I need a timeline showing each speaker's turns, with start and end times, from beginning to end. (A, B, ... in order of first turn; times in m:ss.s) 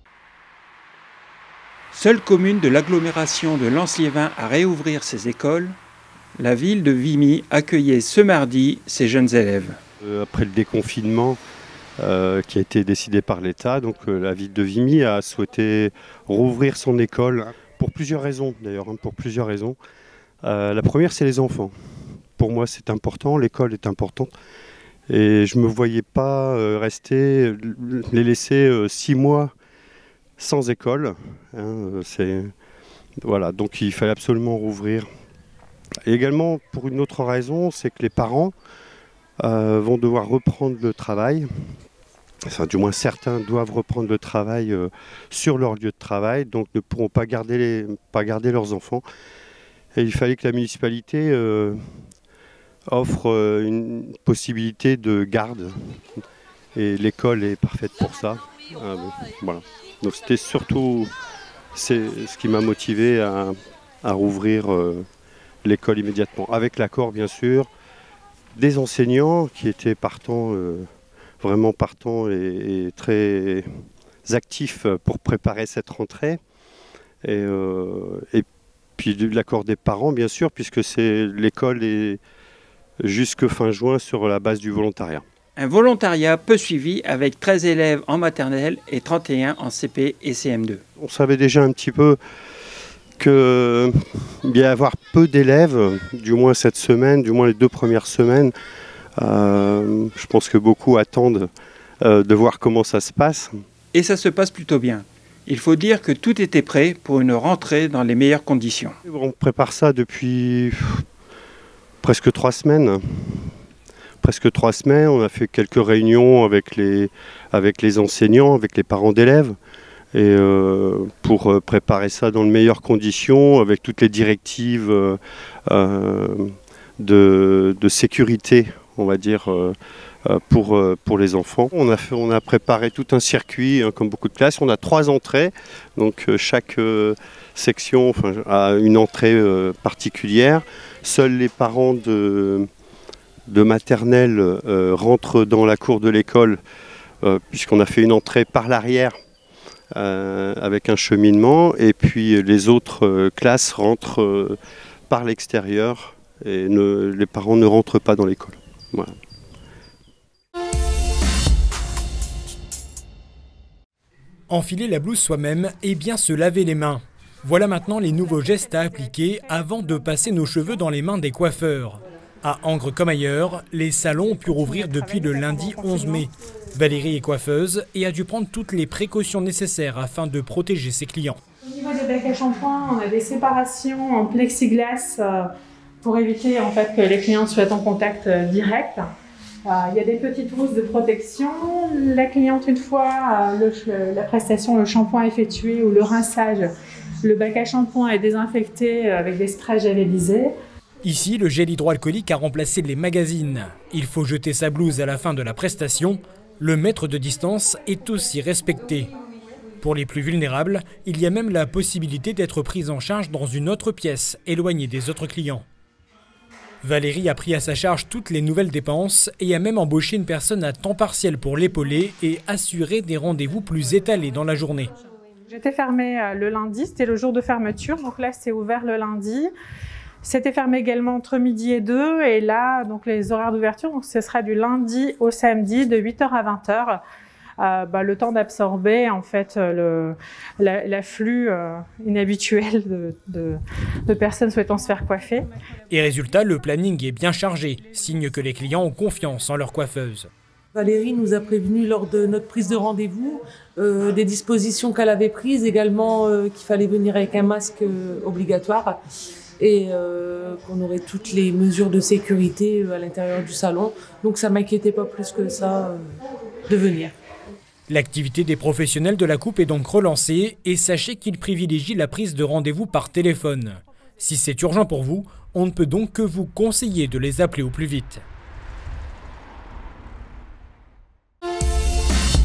0:01.9-0:05.8 A
0:06.4-0:09.8 A
0:10.0-0:11.4 B
0:12.0-0:19.8 B
0:20.4-0:21.7 B
0:22.4-0:24.3 B
0:25.1-0:29.5 B
0:30.4-0:32.5 B
0:33.2-0:35.1 B
0:36.0-0:38.5 B
0:39.4-0:41.5 B
0:42.5-0:49.0 B
0:49.9-0:51.8 B
0:52.9-0:56.2 B
0:56.7-1:01.1 B
1:01.7-1:05.0 B
1:05.6-1:07.7 B
1:08.6-1:10.9 B
1:11.4-1:13.6 B
1:14.2-1:16.4 B
1:17.2-1:18.4 B
1:19.0-1:22.2 B
1:23.0-1:25.2 B
1:25.6-1:30.8 A
1:31.0-1:32.2 B
1:33.2-1:33.9 B
1:34.4-1:38.5 B
1:39.2-1:41.5 B
1:42.0-1:43.5 B
1:43.9-1:49.0 A
1:49.0-1:51.0 B
1:52.0-1:53.4 B
1:54.2-1:59.6 B
2:00.1-2:09.7 B
2:10.2-2:22.7 B
2:23.5-2:26.6 B
2:27.2-2:29.2 B
2:29.9-2:34.6 B
2:35.1-2:39.1 B
2:44.5-3:01.4 C
2:48.3-2:49.5 D
2:54.2-2:56.2 D
3:01.6-3:05.5 D
3:06.0-3:09.0 D
3:09.6-3:16.7 D
3:17.2-3:20.5 D
3:21.0-3:29.1 C
3:29.8-3:35.6 C
3:36.8-3:44.9 C
3:45.5-3:49.5 D
3:50.2-3:57.0 D
3:57.6-4:05.4 D
4:05.9-4:10.3 C
4:10.7-4:19.0 E
4:19.6-4:26.1 E
4:26.7-4:27.1 E
4:27.9-4:38.2 C